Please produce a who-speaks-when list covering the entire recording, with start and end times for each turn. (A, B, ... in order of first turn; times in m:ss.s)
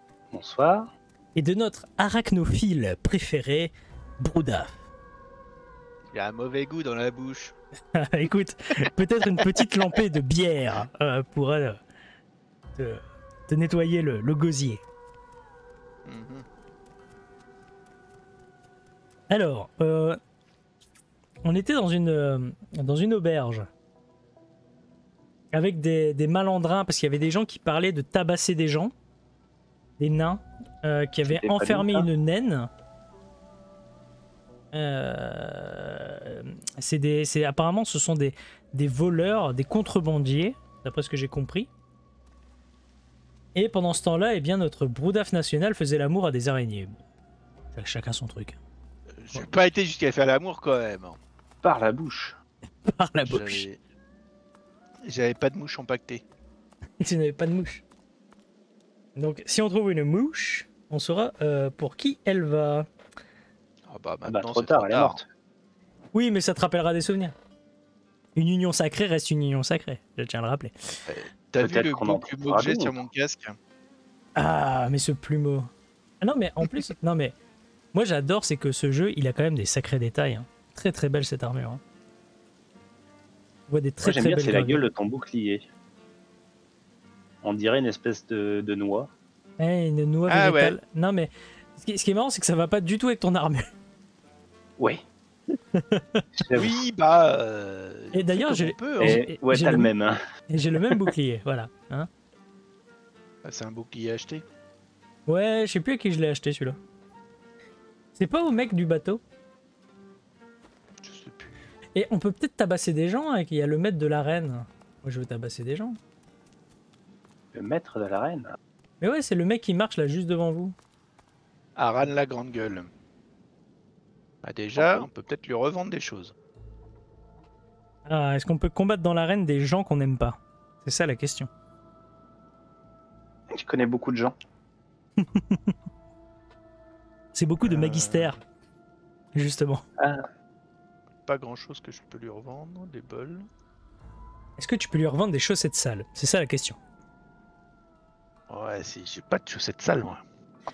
0:00.3-0:00.9 A
0:01.4-0:04.7 B
0:06.1-0:07.5 C
0:07.9-0:11.8 B
0:12.8-0:14.8 B
0:16.0-0:16.4 C
0:19.3-0:20.2 B
0:21.4-0:23.7 B
0:25.5-0:28.9 B
0:30.0-0:32.7 B
0:31.2-0:32.1 A
0:34.7-0:41.7 B
0:43.5-0:47.0 B
0:47.7-0:48.6 B
0:49.2-0:51.2 C
0:51.6-0:52.4 A
0:52.8-0:53.6 B
0:53.2-0:53.8 C
0:55.0-0:56.2 C
0:57.0-0:57.8 B
0:59.2-1:02.9 B
1:03.9-1:05.2 C
1:04.2-1:05.3 A
1:06.1-1:07.3 B
1:08.4-1:11.0 B
1:11.1-1:13.6 C
1:11.6-1:13.0 A
1:14.4-1:17.4 B
1:17.9-1:21.8 B
1:23.7-1:24.9 B
1:24.0-1:25.7 A
1:27.4-1:29.1 A
1:29.6-1:33.7 B
1:30.3-1:30.8 C
1:34.8-1:35.0 A
1:35.7-1:36.3 B
1:36.4-1:36.8 A
1:36.6-1:39.2 C
1:38.1-1:39.9 B
1:39.0-1:40.2 A
1:40.5-1:42.1 B
1:43.4-1:44.4 C
1:45.3-1:46.8 B
1:48.2-1:49.2 B
1:51.0-1:51.6 C
1:52.0-1:56.0 B
1:57.5-1:58.5 A
1:59.0-2:00.8 B
2:01.8-2:02.9 C
2:04.4-2:06.3 C
2:04.8-2:05.1 A
2:08.0-2:11.5 B
2:13.5-2:14.3 A
2:15.2-2:15.8 B
2:17.3-2:18.4 B
2:17.7-2:18.0 A
2:18.0-2:18.3 C
2:19.3-2:19.8 B
2:20.0-2:20.2 A
2:21.2-2:23.5 C
2:24.6-2:26.8 B
2:28.5-2:30.2 C